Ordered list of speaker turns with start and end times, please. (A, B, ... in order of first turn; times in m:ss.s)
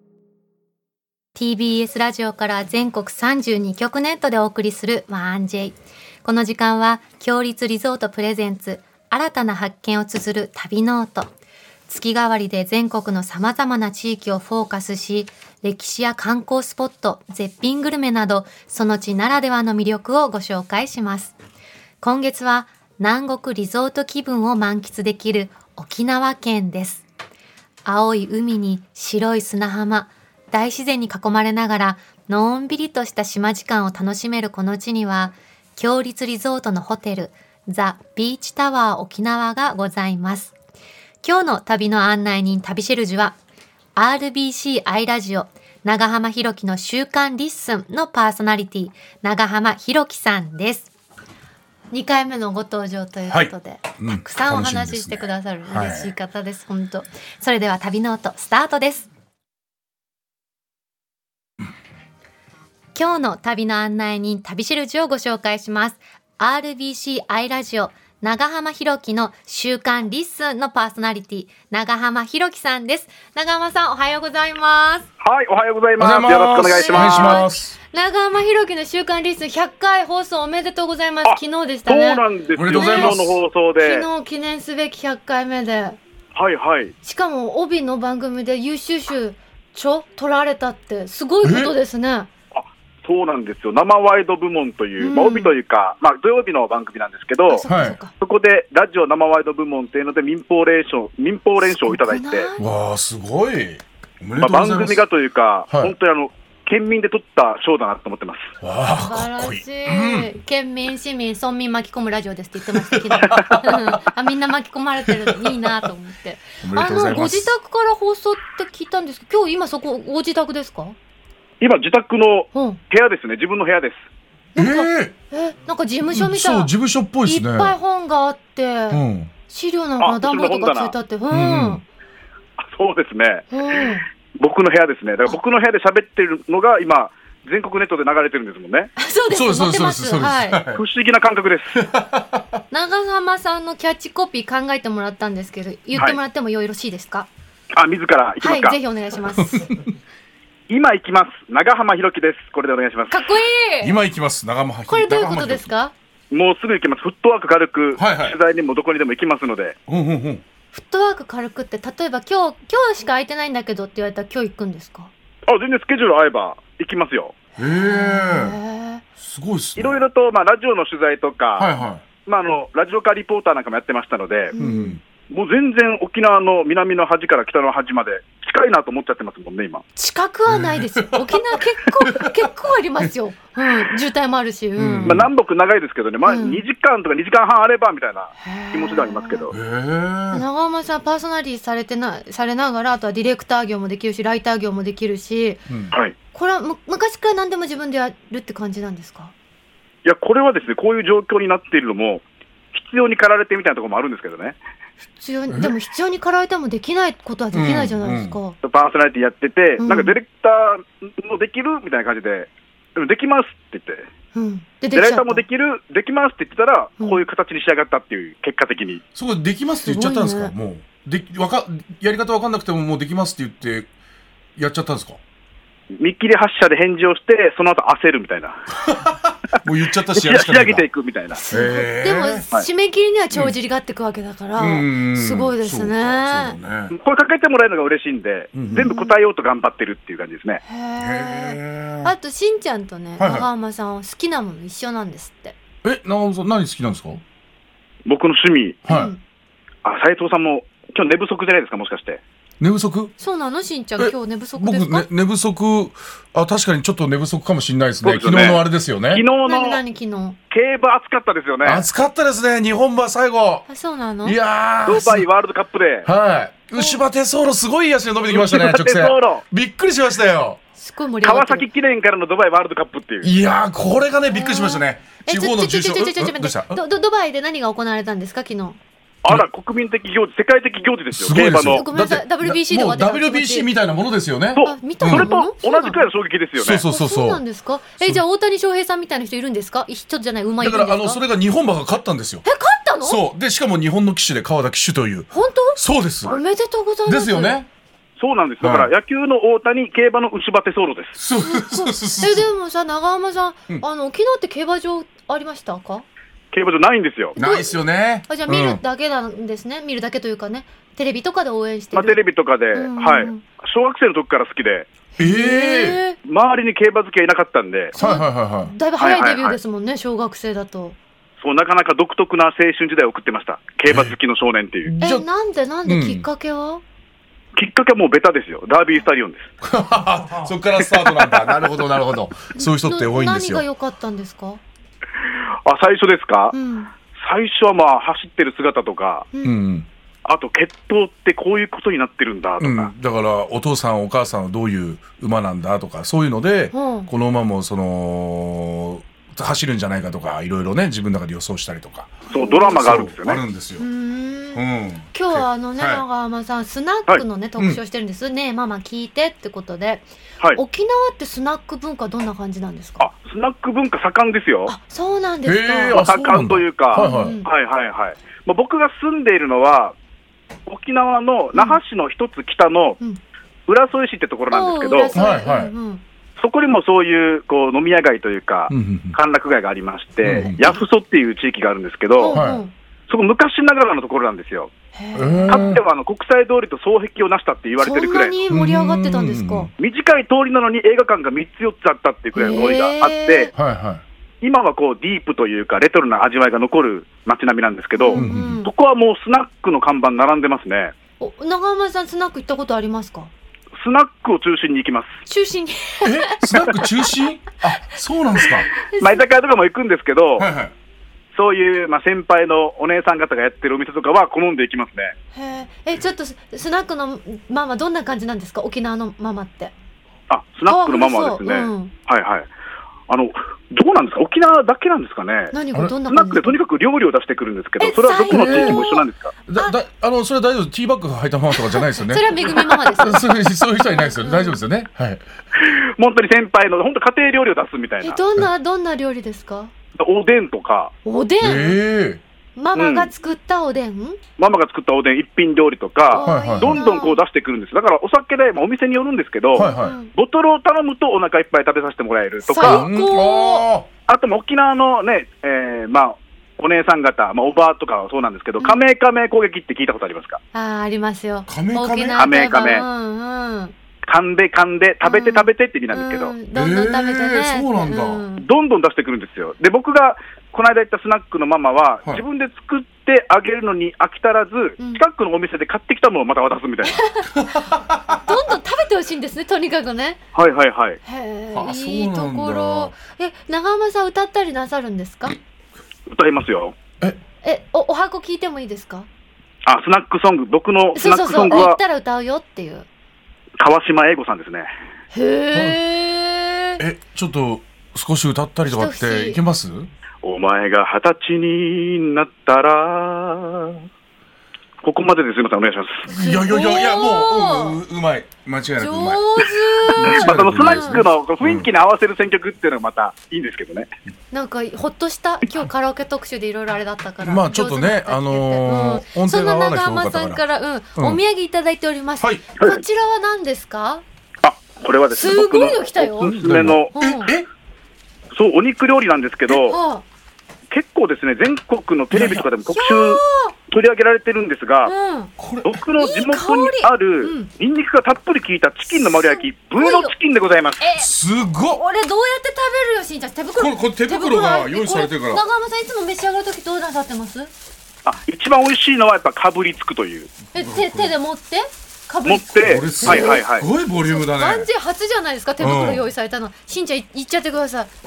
0:01.4-0:11.3 A
0:11.9-0:21.3 A
0:22.0-0:27.0 A
0:27.8-0:40.5 A
0:41.2-0:43.4 A
0:44.0-0:50.9 A
0:51.9-0:59.1 A
0:53.3-0:56.1 B
1:02.9-1:15.1 A
1:15.2-1:17.4 C
1:16.0-1:17.8 B
1:16.6-1:23.2 A
1:21.2-1:24.1 C
1:22.5-1:23.3 B
1:23.8-1:26.0 A
1:26.3-1:26.9 C
1:27.0-1:32.3 A
1:31.4-1:31.7 B
1:32.5-1:37.6 C
1:35.0-1:35.6 A
1:37.5-1:38.1 A
1:37.7-1:38.0 B
1:38.2-1:42.5 C
1:41.7-1:42.7 A
1:42.6-1:45.0 B
1:44.4-1:48.5 C
1:48.6-1:50.3 B
1:48.9-2:01.0 A
1:52.9-1:54.0 B
1:55.0-1:55.8 B
1:56.6-1:57.5 B
2:01.6-2:04.0 C
2:02.5-2:02.8 A
2:04.5-2:06.7 A
2:04.6-2:05.2 B
2:06.1-2:07.7 B
2:07.2-2:11.8 A
2:08.9-2:09.3 B
2:10.0-2:11.0 C
2:11.3-2:11.8 B
2:12.6-2:18.9 C
2:13.5-2:14.0 A
2:19.0-2:20.6 A
2:19.3-2:20.8 B
2:20.7-2:21.9 C
2:21.8-2:22.6 B
2:22.7-2:27.3 A
2:27.7-2:28.8 C
2:28.4-2:29.7 A
2:29.4-2:29.9 B
2:30.7-2:33.2 C
2:33.1-2:33.9 A
2:33.8-2:35.7 B
2:34.9-2:35.9 A
2:36.3-2:39.8 C
2:38.0-2:38.4 B
2:39.9-2:40.4 B
2:40.7-2:45.1 A
2:45.5-2:47.4 C
2:47.6-2:48.6 B
2:47.6-2:49.0 A
2:49.2-2:50.0 B
2:49.8-2:51.7 C
2:51.6-2:52.0 B
2:52.2-2:54.5 C
2:54.5-2:55.0 A
2:54.6-2:55.0 B
2:55.3-2:59.8 C
3:00.0-3:05.2 A
3:00.5-3:02.5 B
3:04.8-3:05.3 B
3:05.0-3:09.5 C
3:06.2-3:06.6 A
3:08.4-3:09.5 A
3:09.5-3:10.4 B
3:10.3-3:15.6 A
3:15.7-3:15.9 B
3:16.3-3:19.3 A
3:20.0-3:24.6 C
3:25.0-3:28.6 A
3:25.5-3:25.7 B
3:27.5-3:28.4 B
3:28.6-3:34.0 C
3:29.8-3:30.2 A
3:34.3-3:35.4 A
3:34.9-3:39.0 C
3:37.0-3:37.2 A
3:39.1-3:43.9 B
3:39.8-3:40.5 A
3:44.6-3:45.2 B
3:46.0-3:48.7 C
3:48.7-3:50.8 B
3:50.1-3:51.4 C
3:51.3-3:56.6 A
3:51.5-3:52.5 B
3:54.6-3:56.9 B
3:56.9-4:00.6 C
3:58.5-3:58.9 B
3:58.7-3:59.1 A
4:00.6-4:05.6 A
4:01.0-4:02.1 B
4:03.2-4:03.5 B
4:05.8-4:07.2 B
4:08.0-4:08.8 C
4:08.9-4:09.1 B
4:08.9-4:09.2 A
4:09.8-4:12.2 C
4:12.6-4:13.1 B
4:13.2-4:15.1 A
4:14.0-4:19.2 B
4:18.0-4:19.8 C
4:19.4-4:20.4 A
4:20.5-4:21.8 C
4:21.6-4:23.7 B
4:23.7-4:24.4 A
4:24.2-4:25.3 B
4:24.8-4:26.1 C
4:26.0-4:30.6 B
4:26.7-4:27.0 A
4:28.2-4:29.4 C
4:30.8-4:31.7 A
4:31.2-4:33.3 C
4:33.2-4:36.8 B
4:34.3-4:38.8 A
4:39.2-4:41.8 C
4:41.1-4:45.3 B
4:41.6-4:43.7 A
4:44.5-4:46.8 C
4:44.6-4:46.0 A
4:46.6-4:47.4 B
4:46.8-4:51.2 A
4:50.6-4:52.4 B
4:52.4-4:53.2 A
4:53.0-4:56.4 B
4:55.3-4:57.6 A
4:57.0-4:57.7 B
4:58.2-5:01.2 C
4:58.6-4:58.9 B
5:01.2-5:02.5 B
5:01.4-5:06.0 A
5:06.5-5:07.4 C
5:07.3-5:12.2 A
5:07.4-5:08.8 B
5:11.9-5:14.9 C
5:12.7-5:13.4 A
5:15.2-5:16.2 A
5:15.2-5:16.0 B
5:16.2-5:17.9 C
5:17.9-5:21.0 A
5:18.0-5:18.7 B
5:19.0-5:19.6 C
5:21.4-5:24.9 C
5:23.8-5:24.2 B
5:24.8-5:25.2 B
5:25.0-5:26.8 A
5:25.8-5:26.3 B
5:27.6-5:29.5 C
5:29.6-5:33.6 B
5:30.8-5:31.6 C
5:32.5-5:34.6 A
5:35.6-5:36.6 C
5:36.5-5:36.9 A
5:37.1-5:39.3 C
5:39.3-5:39.6 A
5:39.4-5:39.9 B
5:40.2-5:42.9 C
5:42.6-5:53.8 B
5:46.7-5:47.1 A
5:52.3-5:53.1 A
5:52.3-5:53.4 C
5:53.8-5:54.6 A
5:54.5-5:56.0 B
5:55.1-6:03.1 A
6:03.0-6:04.7 C
6:04.6-6:06.1 A
6:05.4-6:07.4 B
6:05.9-6:09.9 C
6:06.9-6:07.5 A
6:10.7-6:13.0 C
6:11.5-6:11.8 A
6:13.7-6:15.2 C
6:14.5-6:16.0 A
6:15.1-6:15.7 B
6:16.4-6:22.4 C
6:18.7-6:19.2 B
6:20.2-6:20.6 B
6:20.3-6:20.8 A
6:22.2-6:22.7 A
6:22.3-6:22.6 B
6:23.1-6:24.7 C
6:24.9-6:25.7 A
6:25.1-6:25.8 B
6:25.5-6:28.4 C
6:27.8-6:29.7 A
6:28.5-6:29.7 B
6:29.8-6:33.5 C
6:32.3-6:33.5 A
6:33.5-6:34.0 B
6:34.4-6:40.9 C
6:37.9-6:38.7 A
6:38.1-6:38.6 B
6:41.2-6:43.3 A
6:43.8-6:45.2 C
6:45.2-6:47.1 A
6:46.0-6:48.7 B
6:48.7-6:49.2 A
6:49.0-6:50.5 C
6:50.4-6:50.7 B
6:51.3-6:55.1 C
6:55.3-6:59.7 A
7:00.3-7:02.5 C
7:00.6-7:01.9 A
7:03.1-7:09.3 C
7:05.5-7:06.6 A
7:07.8-7:09.7 A
7:08.3-7:08.8 B
7:09.5-7:15.2 B
7:11.6-7:14.6 A
7:15.6-7:18.2 C
7:18.0-7:19.7 A
7:20.0-7:20.9 C
7:21.0-7:21.8 A
7:21.4-7:22.2 B
7:22.6-7:24.2 A
7:22.8-7:23.1 C
7:24.4-7:32.9 C
7:26.1-7:27.2 A
7:26.2-7:26.9 B
7:29.5-7:30.0 B
7:29.6-7:30.1 A
7:32.4-7:33.7 A
7:32.6-7:33.9 B
7:34.1-7:40.4 C
7:40.5-7:43.7 A
7:41.5-7:42.3 B
7:42.1-7:42.9 C
7:44.0-7:46.4 C
7:45.0-7:48.4 A
7:46.5-7:48.2 B
7:48.4-7:57.0 C
7:56.8-8:00.2 A
7:57.3-7:58.2 B
8:00.3-8:01.0 C
8:01.0-8:05.4 A
8:01.5-8:02.9 B
8:06.1-8:06.8 C
8:07.4-8:09.1 A
8:09.6-8:11.8 C
8:10.9-8:12.9 A
8:13.6-8:14.7 C
8:15.1-8:16.8 A
8:15.5-8:15.8 B
8:16.8-8:19.9 B
8:18.7-8:19.4 A
8:20.2-8:23.8 C
8:24.8-8:26.1 C
8:26.0-8:27.8 A
8:26.1-8:31.7 B
8:28.8-8:31.0 A
8:30.0-8:33.9 C
8:34.3-8:44.0 A
8:37.2-8:40.4 B
8:42.2-8:42.5 B
8:42.6-8:42.8 C
8:44.4-8:46.9 C
8:45.1-8:46.4 A
8:46.2-8:47.5 B
8:46.9-8:47.3 A
8:48.3-8:49.8 C
8:49.5-8:50.0 A
8:50.7-8:54.9 C
8:52.1-8:52.5 B
8:52.7-8:53.5 A
8:54.8-8:55.3 A
8:55.4-8:55.8 B
8:55.6-9:00.8 C
8:56.0-8:57.5 A
8:58.9-9:00.1 A
9:00.8-9:01.1 A
9:01.0-9:01.8 B
9:01.7-9:07.5 A
9:03.6-9:05.4 B
9:08.0-9:10.3 C
9:10.5-9:13.5 A
9:10.5-9:11.1 B
9:12.2-9:13.7 C
9:12.6-9:14.7 B
9:14.0-9:17.9 A
9:15.6-9:16.0 B